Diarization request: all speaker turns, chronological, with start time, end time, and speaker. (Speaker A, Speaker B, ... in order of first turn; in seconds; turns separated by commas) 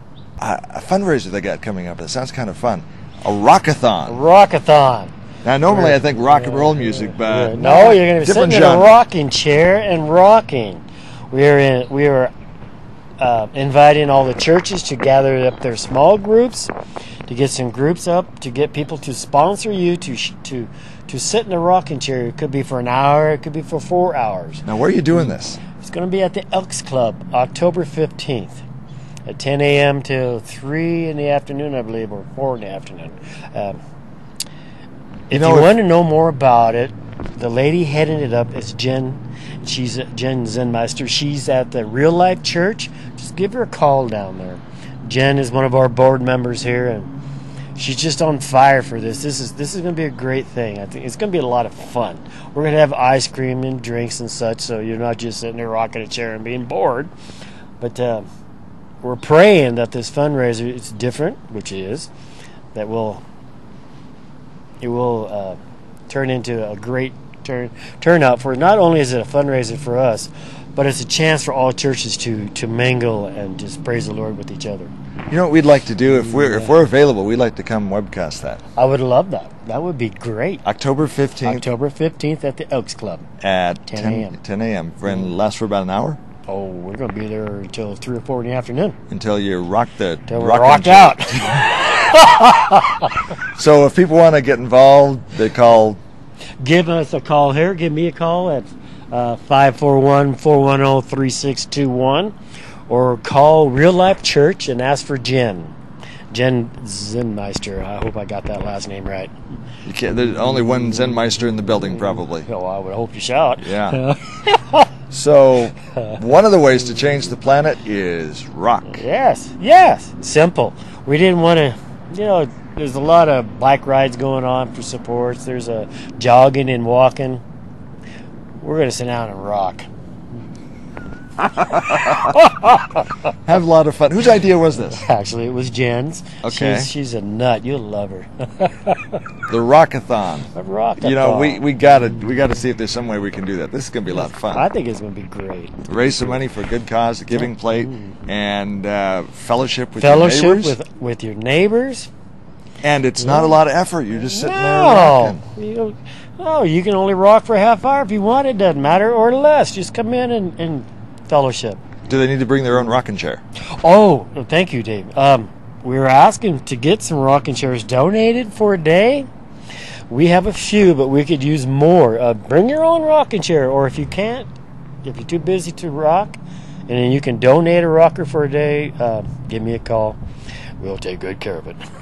Speaker A: 0.4-4.2, Speaker B: 4.1-5.1, Speaker A: 5.5-9.0, Speaker B: 5.7-12.3, Speaker B: 13.2-16.7, Speaker B: 17.3-24.6, Speaker A: 24.6-25.6, Speaker B: 25.8-28.6, Speaker B: 29.3-33.8, Speaker B: 35.3-47.1, Speaker A: 35.3-35.8, Speaker B: 47.8-57.1, Speaker B: 57.8-58.3, Speaker B: 59.0-62.1, Speaker B: 62.7-63.2, Speaker B: 64.8-65.6, Speaker B: 66.1-74.9, Speaker A: 75.3-78.6, Speaker B: 76.1-76.7, Speaker B: 78.8-80.6, Speaker A: 80.7-81.7, Speaker B: 81.4-83.3, Speaker A: 83.4-86.2, Speaker B: 83.9-84.4, Speaker B: 86.5-89.0, Speaker A: 89.1-91.8, Speaker B: 90.3-93.1, Speaker A: 93.5-96.0, Speaker B: 96.6-102.3, Speaker B: 102.9-105.8, Speaker B: 106.3-109.3, Speaker A: 109.8-112.5, Speaker B: 112.0-114.9, Speaker A: 113.6-114.0, Speaker A: 115.1-119.0, Speaker B: 118.9-127.4, Speaker B: 128.6-129.9, Speaker B: 131.7-133.1, Speaker A: 131.8-132.2, Speaker A: 133.4-135.0, Speaker B: 134.9-139.2, Speaker A: 136.4-136.9, Speaker A: 139.5-144.7, Speaker B: 140.5-141.7, Speaker B: 144.1-146.4, Speaker A: 145.9-150.8, Speaker B: 147.3-148.3, Speaker B: 150.0-152.1, Speaker A: 152.8-155.4, Speaker B: 153.2-153.6, Speaker B: 154.2-161.8, Speaker A: 162.1-163.4, Speaker B: 163.8-169.3, Speaker B: 170.1-174.5, Speaker B: 175.0-180.2, Speaker B: 180.8-181.8